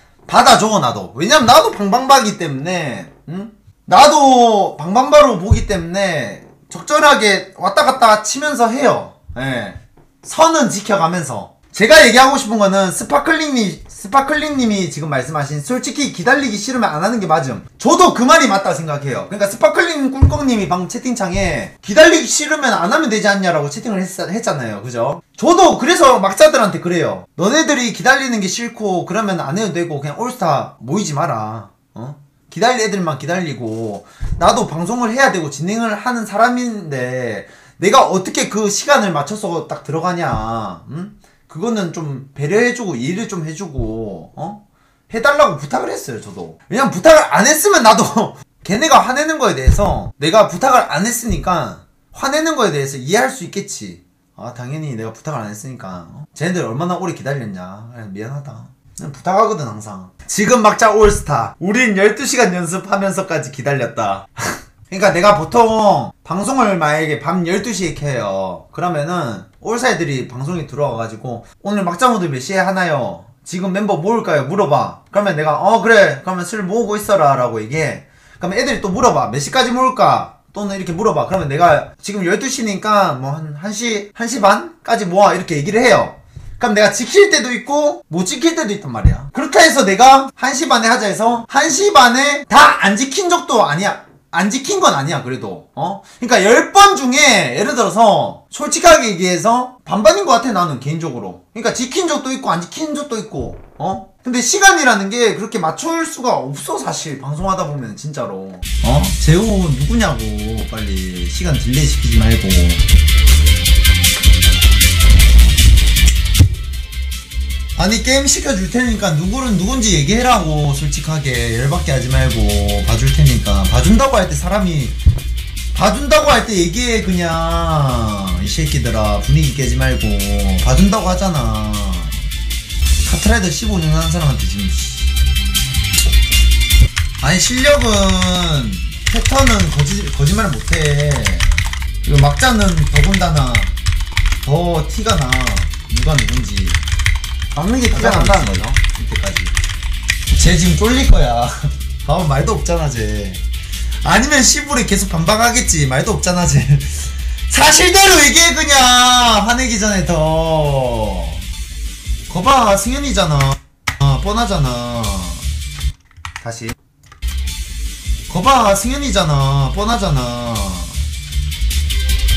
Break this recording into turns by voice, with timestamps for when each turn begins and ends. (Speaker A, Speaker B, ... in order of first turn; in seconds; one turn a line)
Speaker A: 0.3-112.8
Speaker A: 117.8-125.0
Speaker A: 125.7-132.2
Speaker A: 133.0-135.1
Speaker A: 137.2-143.8
Speaker A: 144.4-146.8
Speaker A: 147.5-149.5
Speaker A: 150.3-153.4
Speaker A: 154.0-161.4
Speaker A: 162.3-165.4
Speaker A: 166.4-166.7
Speaker A: 168.3-171.0